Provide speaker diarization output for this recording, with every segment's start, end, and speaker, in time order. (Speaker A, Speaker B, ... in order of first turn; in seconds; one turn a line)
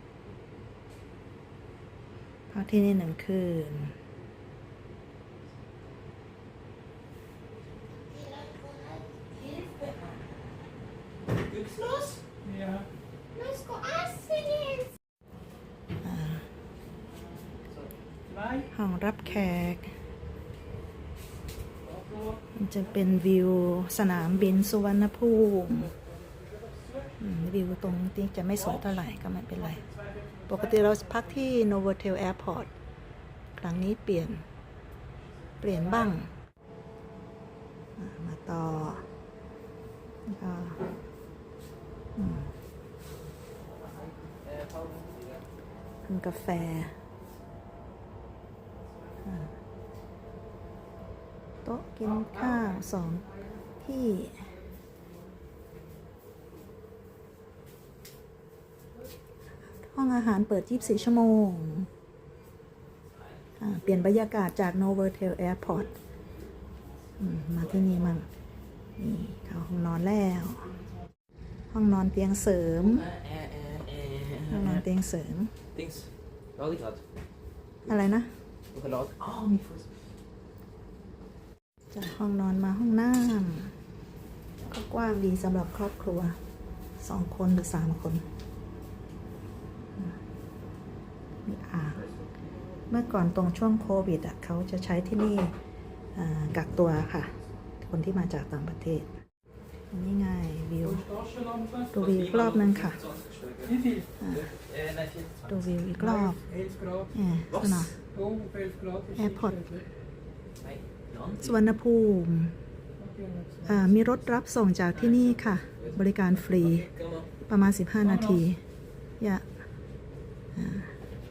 Speaker A: 2.5-3.9
Speaker B: 8.1-9.0
Speaker C: 11.5-12.1
Speaker D: 12.5-12.8
Speaker B: 13.4-14.9
Speaker A: 16.0-16.4
Speaker A: 18.7-19.9
Speaker A: 22.5-25.9
Speaker A: 27.2-29.9
Speaker A: 30.5-32.7
Speaker A: 33.5-34.4
Speaker A: 35.6-36.3
Speaker A: 38.0-39.0
Speaker A: 40.3-40.8
Speaker A: 42.1-42.5
Speaker C: 44.4-45.4
Speaker A: 46.0-47.0
Speaker A: 49.2-49.5
Speaker A: 51.6-54.5
Speaker A: 59.7-61.9
Speaker A: 63.6-65.9
Speaker A: 67.2-68.3
Speaker A: 69.0-70.7
Speaker A: 71.7-73.1
Speaker C: 72.9-74.8
Speaker A: 74.5-75.5
Speaker C: 75.7-77.0
Speaker A: 77.8-78.3
Speaker C: 78.7-79.9
Speaker A: 81.9-83.7
Speaker A: 84.7-86.4
Speaker A: 87.0-88.2
Speaker A: 91.5-92.1
Speaker A: 92.9-95.5
Speaker A: 96.1-99.1
Speaker A: 99.9-101.1
Speaker A: 101.9-103.0
Speaker C: 102.0-105.6
Speaker A: 104.2-104.5
Speaker A: 105.5-106.4
Speaker D: 106.5-107.0
Speaker A: 107.1-108.0
Speaker D: 108.2-109.1
Speaker A: 109.1-109.8
Speaker C: 110.6-111.5
Speaker A: 111.3-112.5
Speaker D: 113.1-113.6
Speaker A: 113.6-116.9
Speaker C: 116.8-117.2
Speaker A: 117.5-118.6
Speaker A: 119.2-119.5
Speaker A: 120.5-120.9